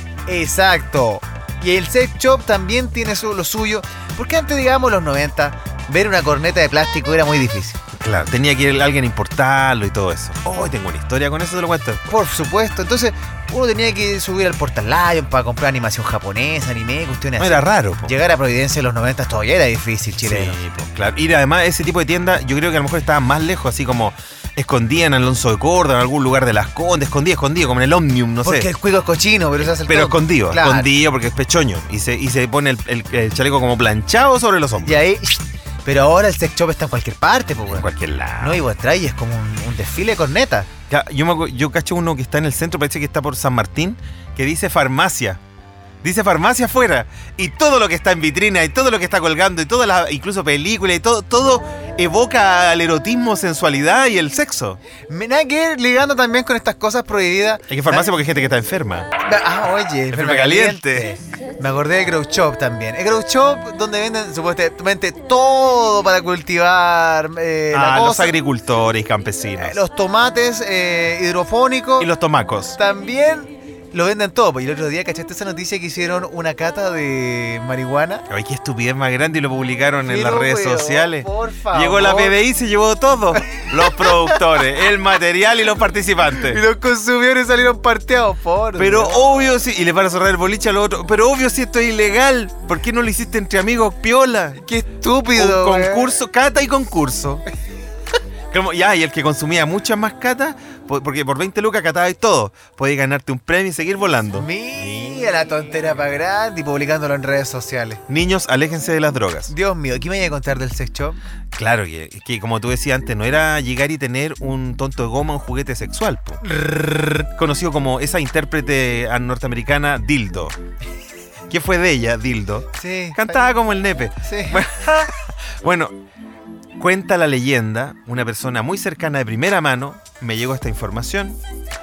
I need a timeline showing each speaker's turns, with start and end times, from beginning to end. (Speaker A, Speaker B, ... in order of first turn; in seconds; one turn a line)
Speaker A: 0.3-7.8
Speaker B: 7.9-12.2
Speaker A: 12.1-20.6
Speaker B: 17.4-18.1
Speaker B: 20.2-28.7
Speaker A: 28.4-30.9
Speaker B: 29.6-35.0
Speaker A: 34.8-37.9
Speaker B: 37.7-38.6
Speaker A: 38.4-40.7
Speaker B: 40.9-45.4
Speaker B: 46.0-54.8
Speaker A: 55.1-58.1
Speaker B: 57.7-59.1
Speaker A: 59.2-68.3
Speaker B: 60.1-61.1
Speaker B: 67.7-69.8
Speaker A: 69.6-72.1
Speaker B: 72.0-72.8
Speaker A: 72.8-78.2
Speaker B: 78.3-86.6
Speaker A: 80.1-82.4
Speaker A: 83.5-84.6
Speaker A: 86.4-89.2
Speaker B: 88.8-94.6
Speaker A: 94.6-96.1
Speaker B: 95.3-97.4
Speaker B: 98.5-104.5
Speaker A: 104.3-108.0
Speaker B: 108.1-109.5
Speaker A: 109.5-111.2
Speaker B: 111.5-116.4
Speaker A: 116.4-117.3
Speaker B: 117.3-120.5
Speaker B: 121.5-126.0
Speaker A: 122.8-123.4
Speaker A: 124.2-124.7
Speaker B: 126.8-131.4